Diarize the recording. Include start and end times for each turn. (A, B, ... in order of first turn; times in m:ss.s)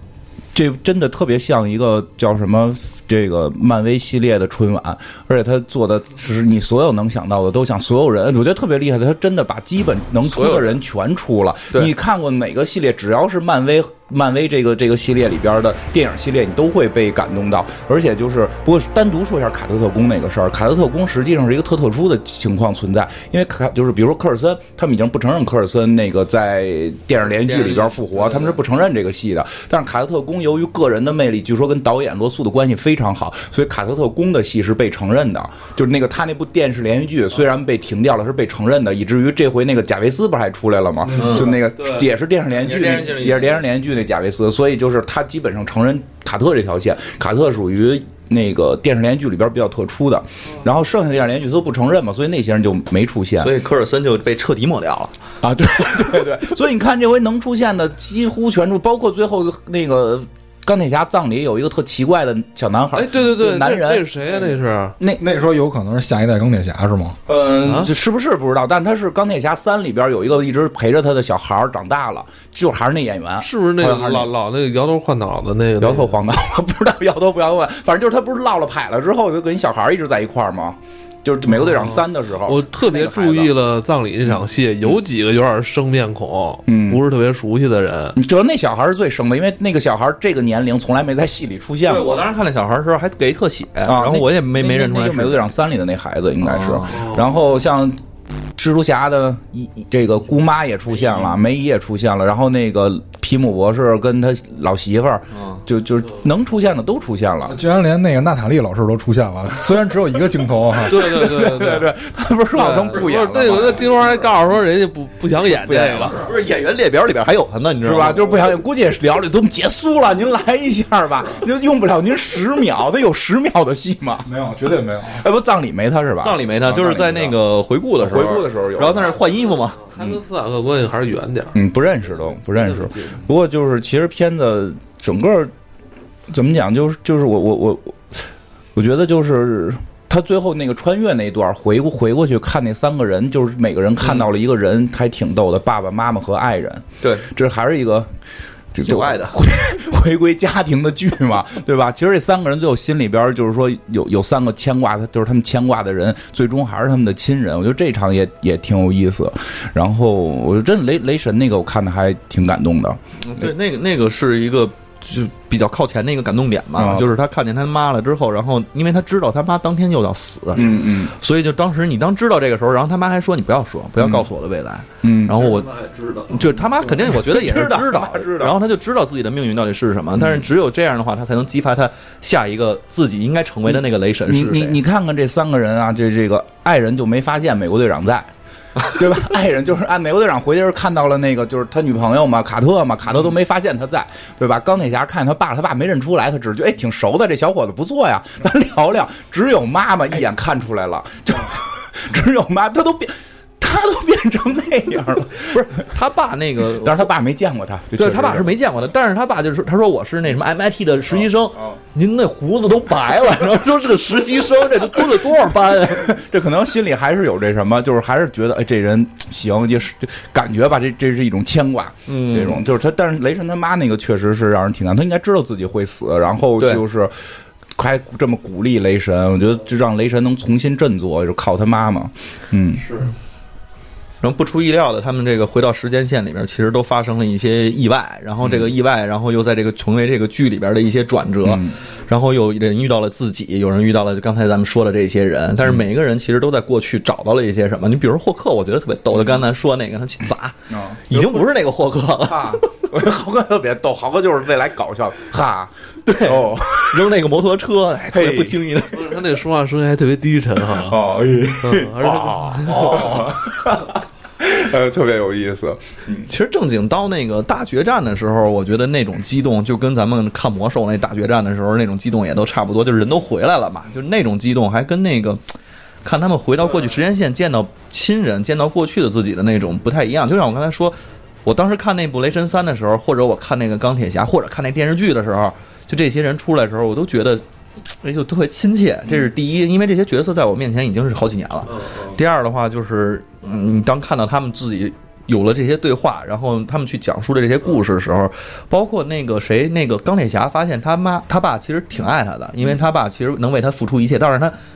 0:00.5-0:53.5 A
0:10.3-0:10.8 B
0:27.4-0:28.6 B
0:41.1-0:41.6 B
0:41.2-0:42.1 C
0:42.5-0:43.6 B
0:53.4-0:55.1 B
0:55.4-1:04.1 A
1:02.9-1:05.0 C
1:05.2-1:07.2 D
1:07.3-1:14.3 A
1:07.6-1:07.9 C
1:13.4-1:16.1 C
1:15.8-1:23.5 A
1:21.5-1:28.2 C
1:26.7-1:27.0 A
1:28.2-1:32.2 A
1:31.8-1:35.5 B
1:33.9-1:38.0 A
1:36.4-1:37.0 B
1:36.9-1:37.2 C
1:38.6-1:47.6 A
1:45.3-1:45.6 B
1:47.5-1:51.1 D
1:50.9-1:54.3 A
1:50.9-1:51.9 C
1:52.5-1:56.2 C
1:55.5-1:56.2 A
1:55.9-1:58.5 B
1:57.8-2:04.3 A
2:04.2-2:05.2 D
2:05.2-2:07.4 A
2:06.2-2:09.8 B
2:08.0-2:09.2 A
2:09.4-2:13.2 C
2:11.5-2:15.5 A
2:16.3-2:18.2 A
2:18.8-2:28.1 A
2:24.0-2:24.3 B
2:27.0-2:27.3 B
2:28.7-2:43.5 A
2:28.8-2:29.4 B
2:43.2-2:55.7 B
2:46.8-2:47.1 A
2:50.6-2:51.1 A
2:55.0-2:55.5 A
2:55.4-2:56.4 C
2:56.3-3:04.8 B
2:56.9-2:58.6 A
3:03.7-3:25.6 A
3:25.5-3:27.1 B
3:26.8-3:28.5 A
3:28.0-3:36.2 B
3:35.9-3:47.2 A
3:42.1-3:42.6 B
3:46.6-3:46.8 B
3:47.8-3:52.8 A
3:52.8-3:53.1 C
3:54.2-4:10.6 B
3:58.4-3:58.7 A
4:01.4-4:01.8 A
4:10.7-4:11.5 A
4:11.1-4:12.7 B
4:12.2-4:17.1 A
4:16.1-4:19.2 B
4:18.1-4:18.6 A
4:18.9-4:21.0 C
4:20.8-4:26.3 A
4:21.6-4:23.0 C
4:22.7-4:23.4 B
4:26.3-4:35.4 B
4:36.0-4:47.4 B
4:48.0-5:04.6 B